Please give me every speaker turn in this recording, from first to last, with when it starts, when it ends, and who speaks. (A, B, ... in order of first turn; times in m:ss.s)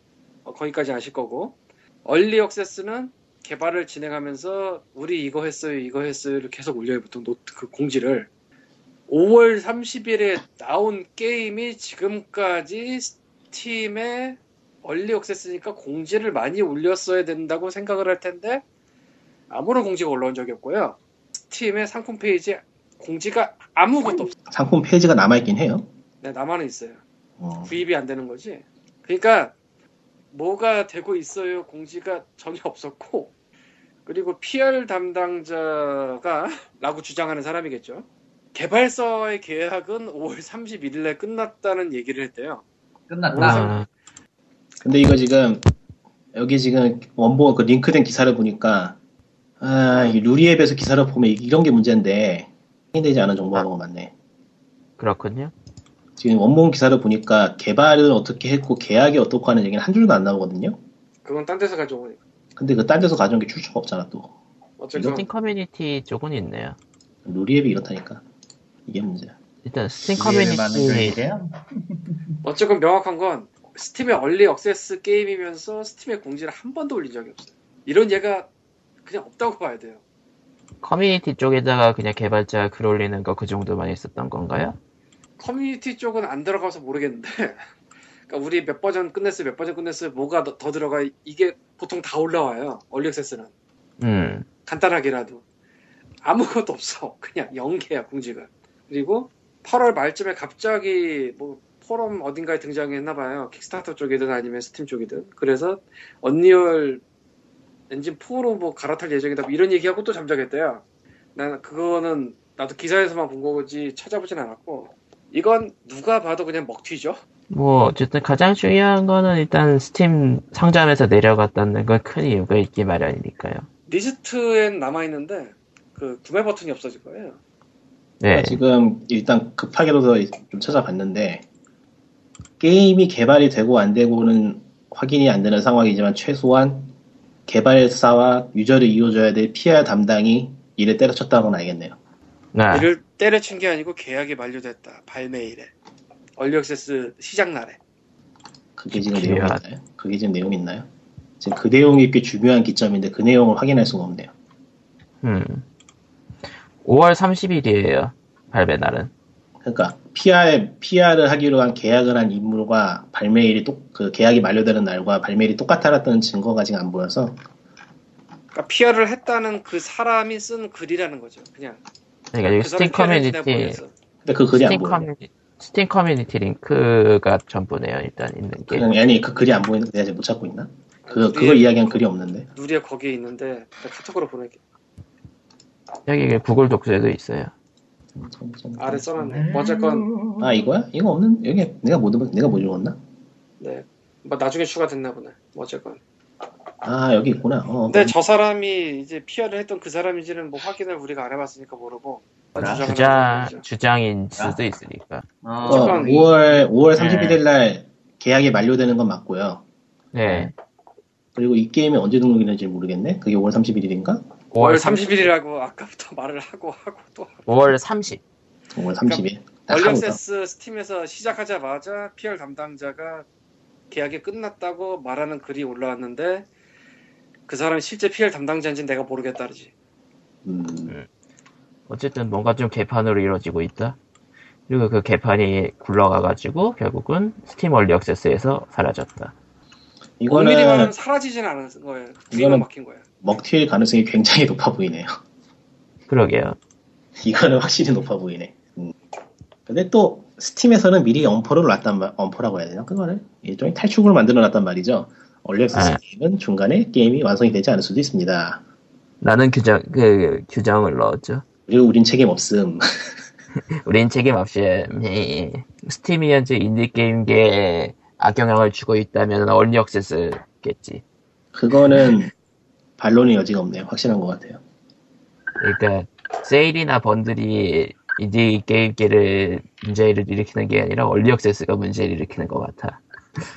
0:00.4-0:08.3 A
0:09.1-0:18.6 A
0:19.5-0:21.0 A
0:21.5-0:24.3 A
0:24.5-0:25.9 B
0:26.2-0:27.0 A
0:27.4-0:27.7 B
0:27.6-0:29.5 A
0:30.3-0:33.3 A
0:34.0-0:42.6 A
0:43.1-0:43.7 C
0:43.3-0:43.8 A
0:43.4-0:43.8 D
0:44.8-0:45.6 B
0:46.3-0:49.0 B
0:49.6-0:54.1 B
0:55.0-0:55.5 D
0:56.2-1:00.8 B
1:01.2-1:02.2 A
1:02.6-1:04.3 B
1:04.8-1:05.2 A
1:05.0-1:06.8 D
1:07.2-1:08.2 B
1:08.8-1:09.3 B
1:09.6-1:11.2 D
1:10.2-1:12.2 C
1:12.4-1:18.5 A
1:19.0-1:20.0 A
1:20.8-1:24.8 D
1:25.4-1:27.6 A
1:28.3-1:33.5 A
1:34.0-1:34.5 D
1:34.7-1:35.4 A
1:36.2-1:47.0 A
1:47.9-1:50.8 A
1:51.3-1:57.2 A
1:57.5-2:03.7 D
2:03.9-2:07.4 A
2:08.2-2:08.6 D
2:08.3-2:11.4 B
2:12.6-2:16.9 B
2:17.5-2:22.0 B
2:22.5-2:22.9 D
2:22.7-2:25.7 A
2:26.4-2:27.8 A
2:28.8-2:30.9 B
2:28.9-2:29.6 D
2:31.4-2:34.3 B
2:35.2-2:35.6 D
2:36.8-2:39.1 D
2:39.6-2:47.4 B
2:48.5-2:51.8 A
2:52.3-2:53.8 D
2:52.6-2:53.9 A
2:54.2-2:55.0 B
2:54.5-2:58.9 D
2:58.7-3:02.5 B
3:01.1-3:01.8 A
3:02.5-3:04.6 A
3:06.0-3:07.5 D
3:08.2-3:09.4 B
3:08.8-3:10.1 A
3:09.3-3:10.5 C
3:10.4-3:13.0 B
3:13.6-3:16.0 A
3:16.8-3:18.1 B
3:17.9-3:23.6 A
3:22.6-3:25.2 D
3:22.6-3:22.9 C
3:25.4-3:26.3 C
3:25.6-3:26.3 A
3:25.6-3:29.6 B
3:27.0-3:27.4 C
3:30.1-3:30.5 D
3:31.3-3:34.2 B
3:34.5-3:35.3 D
3:34.6-3:37.5 A
3:37.4-3:38.2 D
3:38.7-3:40.2 B
3:39.0-3:43.2 A
3:43.9-3:46.5 A
3:47.5-3:49.7 A
3:50.4-3:50.9 B
3:51.9-3:54.0 D
3:54.7-3:59.3 D
4:00.2-4:00.9 B
4:00.3-4:03.0 A
4:02.3-4:02.6 B
4:03.2-4:05.1 B
4:06.1-4:06.6 D
4:07.2-4:08.9 B
4:09.7-4:18.6 B
4:15.7-4:16.0 D
4:19.2-4:21.4 D
4:21.7-4:22.8 B
4:23.8-4:31.0 D
4:31.5-4:32.3 B
4:33.0-4:34.6 B
4:35.6-4:43.0 D